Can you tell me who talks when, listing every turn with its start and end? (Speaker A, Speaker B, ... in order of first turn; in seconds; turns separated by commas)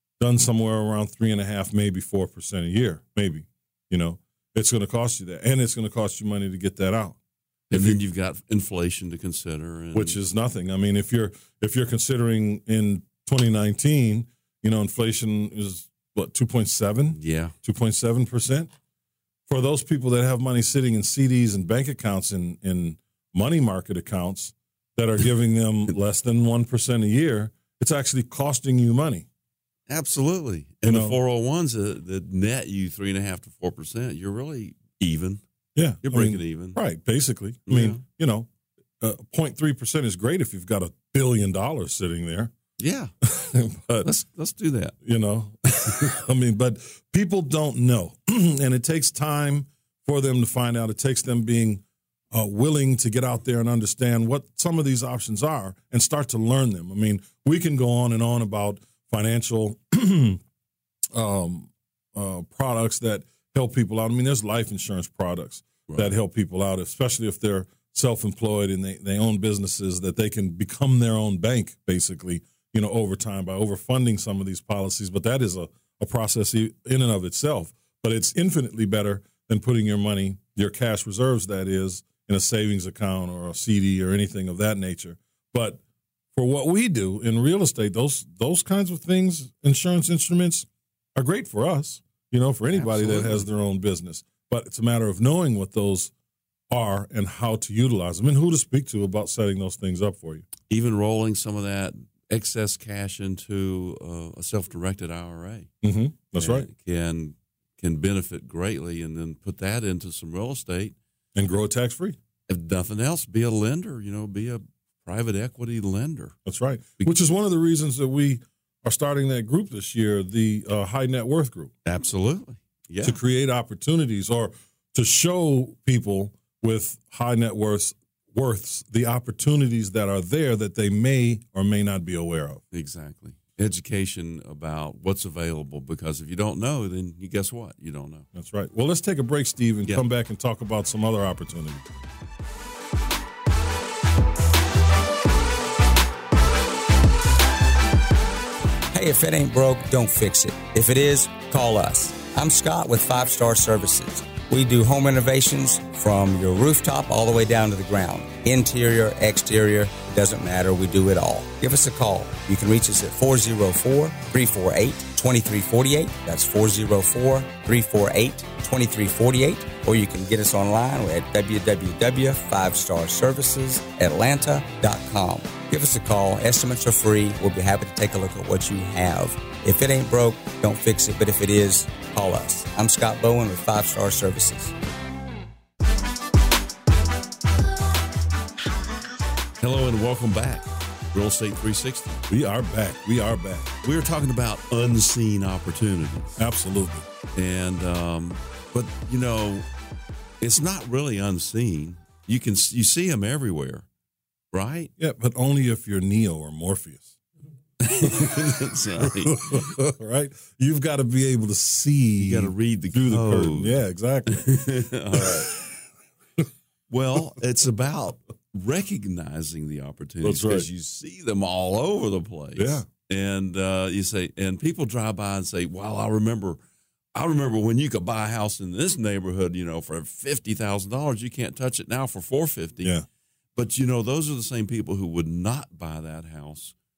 Speaker A: 0.2-7.2, Speaker A: 7.7-8.0, Speaker B: 7.7-10.2, Speaker A: 9.9-18.7, Speaker B: 17.1-17.6, Speaker A: 19.5-29.3, Speaker B: 29.9-35.4, Speaker A: 30.9-31.2, Speaker A: 35.8-38.5, Speaker B: 36.0-36.8, Speaker B: 37.7-38.0, Speaker A: 39.0-42.5, Speaker B: 42.8-43.1, Speaker A: 43.2-44.1, Speaker B: 44.0-45.0, Speaker A: 45.0-60.4, Speaker A: 61.1-85.8, Speaker B: 65.9-66.1, Speaker A: 86.3-96.1, Speaker B: 92.7-93.5, Speaker A: 96.7-100.5, Speaker B: 100.7-105.7, Speaker A: 105.8-106.7, Speaker B: 106.4-111.0, Speaker A: 111.3-112.2, Speaker B: 112.5-116.4, Speaker A: 116.5-121.7, Speaker B: 121.8-123.2, Speaker A: 123.0-132.6, Speaker B: 132.7-138.3, Speaker A: 138.3-141.9, Speaker C: 148.9-184.7, Speaker B: 189.6-192.2, Speaker A: 192.3-193.7, Speaker B: 193.8-196.4, Speaker A: 196.4-197.1, Speaker B: 197.3-199.7, Speaker B: 200.4-203.9, Speaker B: 204.5-204.9, Speaker A: 205.0-207.2, Speaker B: 207.8-209.7, Speaker A: 208.0-208.4, Speaker A: 209.0-215.8, Speaker B: 212.2-215.5, Speaker B: 216.9-226.6, Speaker A: 220.2-220.7, Speaker A: 222.6-222.9, Speaker B: 227.2-233.0, Speaker B: 233.6-236.7